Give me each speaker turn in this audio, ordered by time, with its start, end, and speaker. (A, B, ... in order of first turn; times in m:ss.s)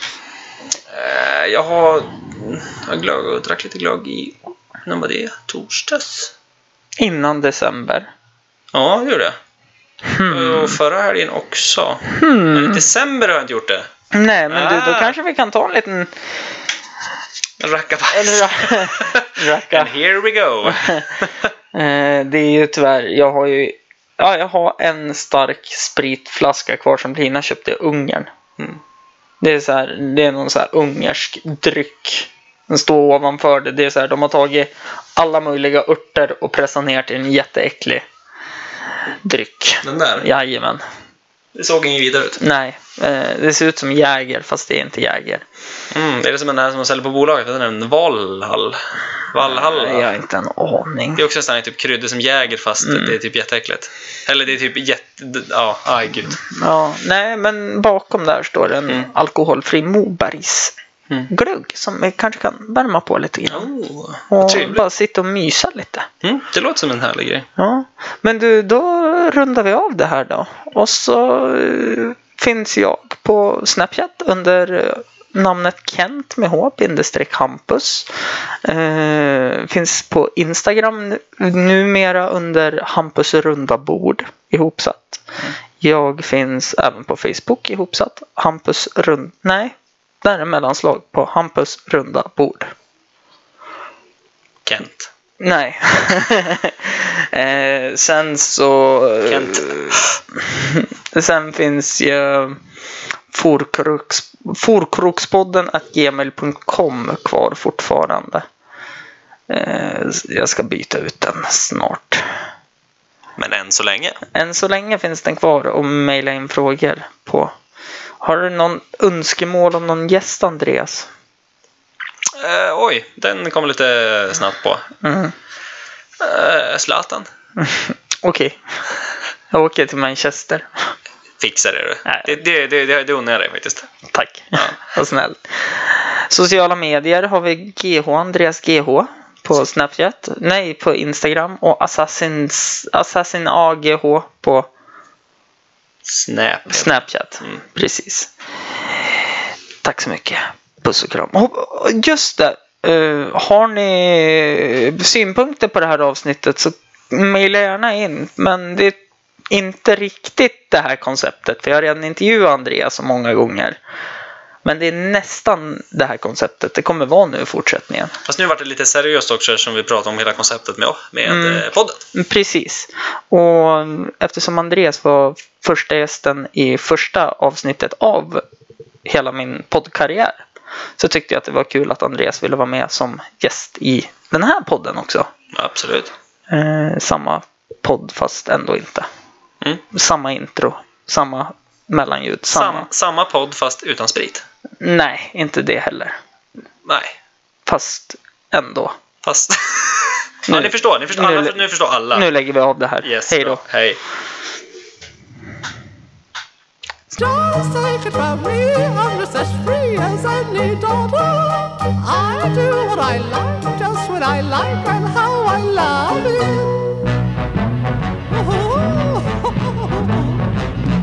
0:00.9-0:06.3 A
0:07.0-0:08.1 B
0:08.7-0:09.4 A
0:10.0-0:10.8 B
0:10.3-0:13.9 A
0:12.1-0:12.8 B
0:14.1-0:16.1 B
0:14.5-0:15.2 A
0:17.6-0:21.5 A
0:18.1-0:19.9 B
0:20.6-0:21.1 B
0:21.7-0:28.3 B
0:29.4-0:38.0 B
0:39.1-0:40.8 B
0:39.8-0:40.3 A
0:41.5-0:42.4 A
0:42.4-0:45.4 B
0:45.9-0:50.1 A
0:49.4-0:51.2 B
0:51.2-0:56.4 A
0:52.8-0:53.2 B
0:56.4-1:00.7 B
1:01.3-1:03.7 B
1:03.5-1:04.8 A
1:04.3-1:06.1 B
1:06.2-1:07.5 A
1:07.6-1:18.1 B
1:18.6-1:25.2 B
1:25.8-1:32.7 B
1:34.6-1:35.1 A
1:35.4-1:42.6 B
1:39.2-1:40.1 A
1:43.3-1:48.4 B
1:49.5-1:52.4 B
1:53.4-1:54.2 A
1:54.3-1:57.5 B
1:58.2-2:01.1 B
2:02.3-2:04.9 A
2:05.0-2:05.3 B
2:06.2-2:07.3 A
2:07.6-2:08.6 B
2:09.5-2:10.9 B
2:11.4-2:13.9 A
2:12.0-2:12.4 B
2:14.1-2:24.7 B
2:26.0-2:27.6 A
2:26.7-2:28.3 B
2:28.9-2:29.3 B
2:29.8-2:39.0 B
2:39.5-2:43.8 B
2:44.6-2:48.1 B
2:48.2-2:52.0 A
2:51.2-2:58.4 B
2:59.0-3:00.4 B
3:01.0-3:05.3 B
3:05.5-3:06.1 A
3:06.5-3:09.1 B
3:09.9-3:12.9 B
3:12.5-3:14.4 A
3:14.8-3:16.2 B
3:16.8-3:17.2 A
3:17.6-3:18.9 B
3:19.2-3:22.3 A
3:20.5-3:21.6 B
3:22.1-3:23.6 B
3:23.0-3:24.0 A
3:27.1-3:36.9 C
3:38.3-3:40.3 C